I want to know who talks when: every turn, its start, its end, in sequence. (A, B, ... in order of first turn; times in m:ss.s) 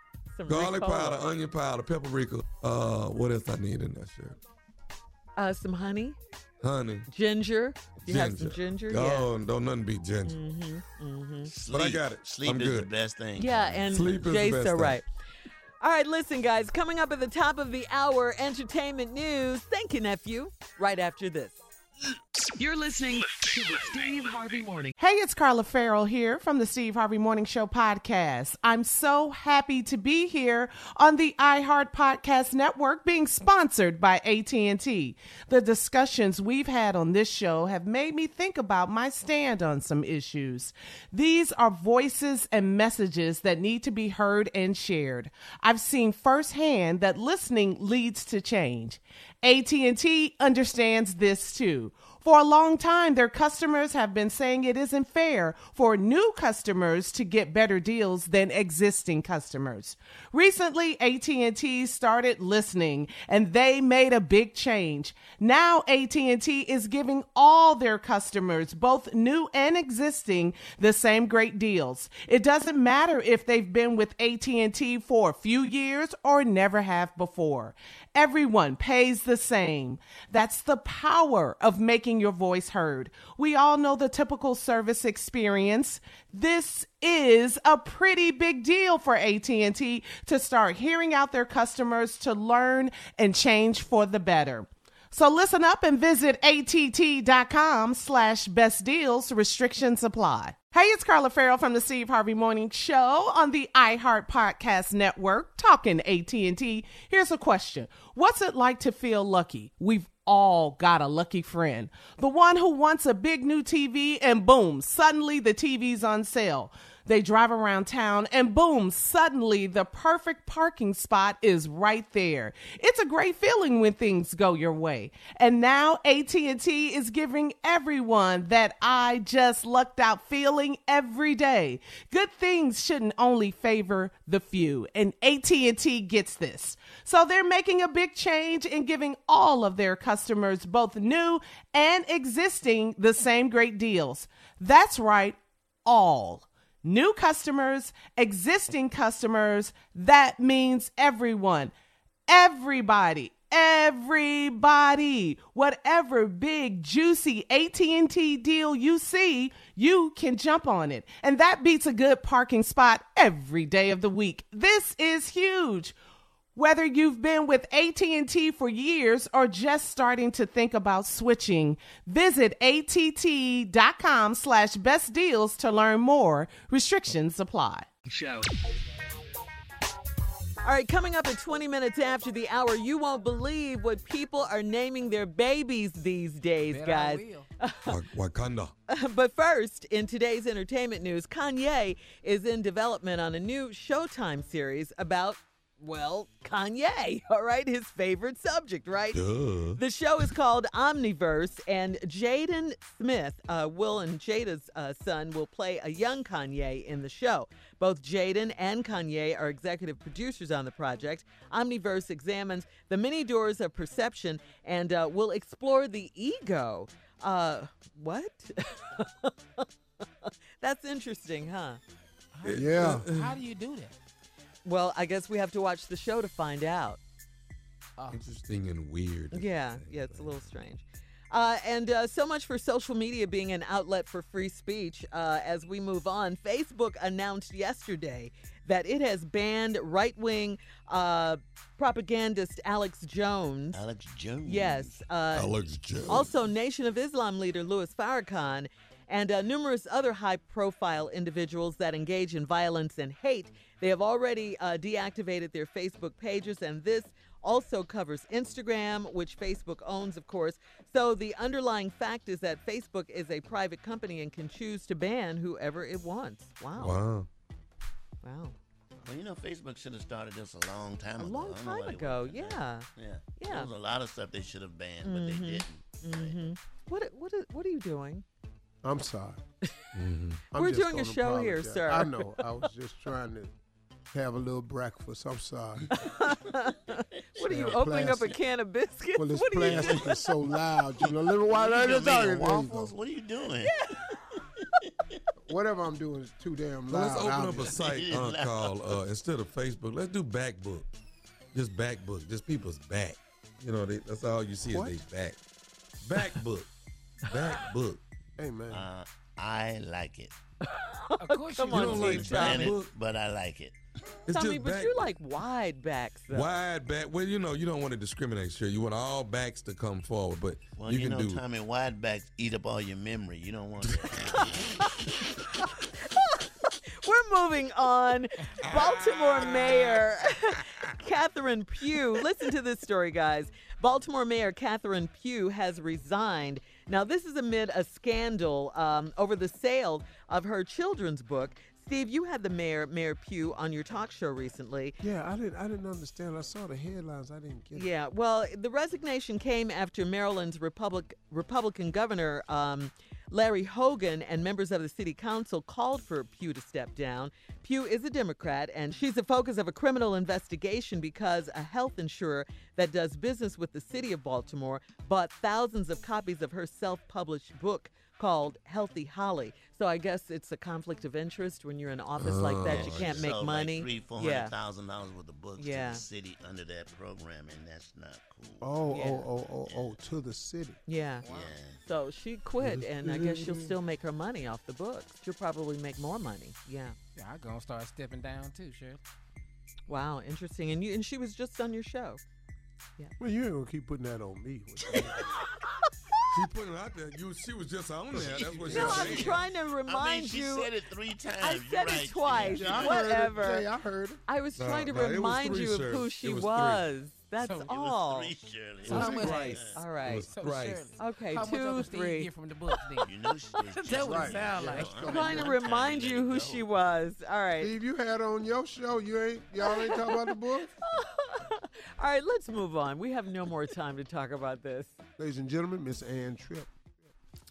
0:00.3-0:01.2 A
0:00.5-0:04.4 B
0:05.4-0:06.2 A
0:06.6-0:07.1 B
0:07.1-0:09.3 A
0:08.0-0:10.4 B
0:10.2-0:11.5 A
0:11.5-0:14.2 C
0:11.7-0:12.9 B
0:13.4-0:15.1 A
0:13.9-0:15.0 B
0:15.8-0:21.6 A
0:22.6-0:24.9 D
0:25.0-2:31.7 E
2:32.3-2:46.0 E
2:46.6-2:57.9 E
2:58.1-2:58.5 D
3:00.6-3:08.0 A
3:06.7-3:07.5 F
3:07.9-3:08.7 B
3:08.9-3:19.2 A
3:19.1-3:19.8 B
3:19.8-3:39.7 A
3:40.2-3:41.8 A
3:42.4-3:44.0 F
3:42.4-3:43.2 B
3:42.5-3:43.1 G
3:44.6-3:47.0 A
3:48.0-3:48.2 F
3:48.1-3:50.5 B
3:49.3-4:03.8 A
4:03.7-4:05.0 C
4:04.4-4:05.5 A
4:05.3-4:06.3 B
4:06.1-4:27.0 A
4:26.8-4:27.3 B
4:28.2-4:28.6 A
4:29.0-4:36.5 C
4:31.2-4:33.7 A
4:35.0-4:38.2 A
4:38.8-4:39.4 G
4:40.0-4:40.4 B
4:40.5-4:43.5 G
4:40.6-4:42.3 A
4:44.1-4:45.9 G
4:45.9-4:50.2 A
4:47.0-4:47.8 C
4:47.4-4:48.3 G
4:49.2-4:52.9 G
4:49.6-4:50.1 C
4:51.0-4:54.6 C
4:53.6-4:54.0 A
4:55.5-4:57.8 G
4:56.9-5:00.9 B
4:57.6-4:59.0 C
5:01.5-5:05.4 B
5:04.7-5:05.0 G
5:06.0-5:06.7 B
5:07.3-5:08.0 B
5:08.4-5:08.8 G
5:08.7-5:10.3 C
5:10.6-5:12.7 A
5:11.2-5:12.5 F
5:11.7-5:12.9 B
5:11.8-5:13.8 C
5:14.3-5:15.1 B
5:14.3-5:16.6 A
5:16.3-5:21.4 B
5:20.8-5:25.0 C
5:23.8-5:24.4 B
5:27.0-5:45.0 A
5:28.6-5:30.1 B
5:45.0-5:47.9 G
5:47.8-6:14.5 A
6:12.2-6:13.3 B
6:12.6-6:18.8 C
6:15.6-6:16.0 A
6:18.6-6:20.8 G
6:18.9-6:19.2 A
6:19.7-6:20.0 C
6:20.9-6:21.2 A
6:21.2-6:21.6 F
6:21.2-6:21.8 C
6:21.8-6:27.0 A
6:22.6-6:23.8 G
6:27.2-6:29.0 F
6:29.9-6:32.2 A
6:33.2-6:35.3 G
6:36.3-6:39.4 B
6:38.1-6:39.3 G
6:38.2-6:39.2 C
6:38.7-6:40.7 A
6:39.9-6:43.0 C
6:41.4-6:43.7 A
6:42.5-6:44.2 G
6:44.3-6:48.3 A
6:44.6-6:46.9 B
6:47.4-6:47.7 F
6:47.7-6:49.8 C
6:48.8-6:53.1 F
6:48.9-6:49.6 G
6:49.0-6:50.3 A
6:50.0-6:50.9 B
6:51.0-6:52.3 A
6:53.0-6:56.7 C
6:53.8-6:55.2 F
6:53.9-6:55.6 G
6:55.0-6:57.7 A
6:57.6-7:00.7 G
6:59.7-7:00.3 A
7:00.9-7:05.0 A
7:05.2-7:06.8 G